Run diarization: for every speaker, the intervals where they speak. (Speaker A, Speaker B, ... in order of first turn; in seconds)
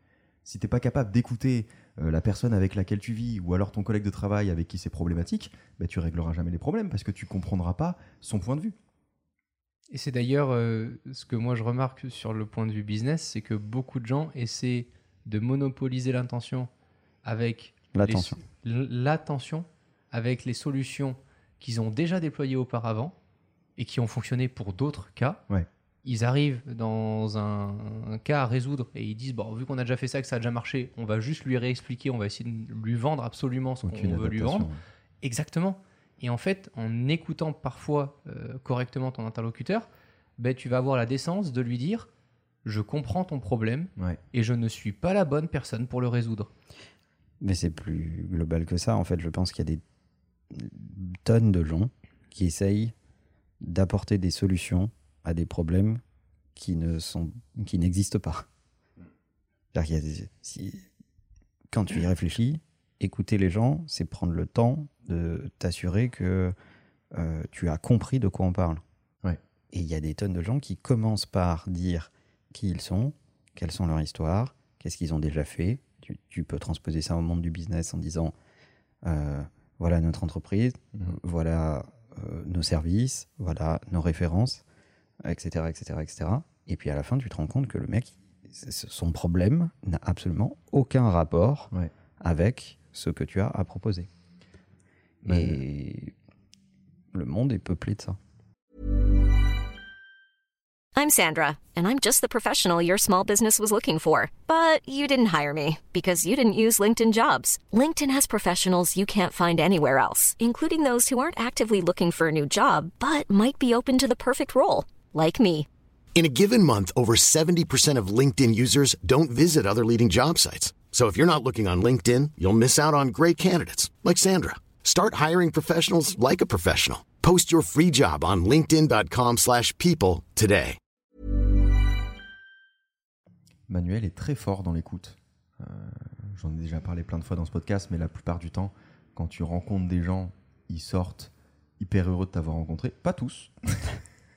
Speaker A: 0.5-8.8, 33.8-34.8, 95.2-95.6, 133.7-144.0
Speaker B: 9.9-16.7, 17.2-23.1, 23.8-25.4, 26.1-34.7, 35.2-42.1, 42.6-46.5
Speaker C: 17.9-18.4, 47.4-49.8, 50.5-53.0, 53.6-56.0, 56.5-58.5, 59.7-60.9, 61.7-66.5, 67.1-68.8, 69.7-78.3, 79.0-84.6, 85.2-94.1, 95.3-96.1, 97.1-98.2
Speaker D: 101.0-115.7
Speaker E: 116.2-130.8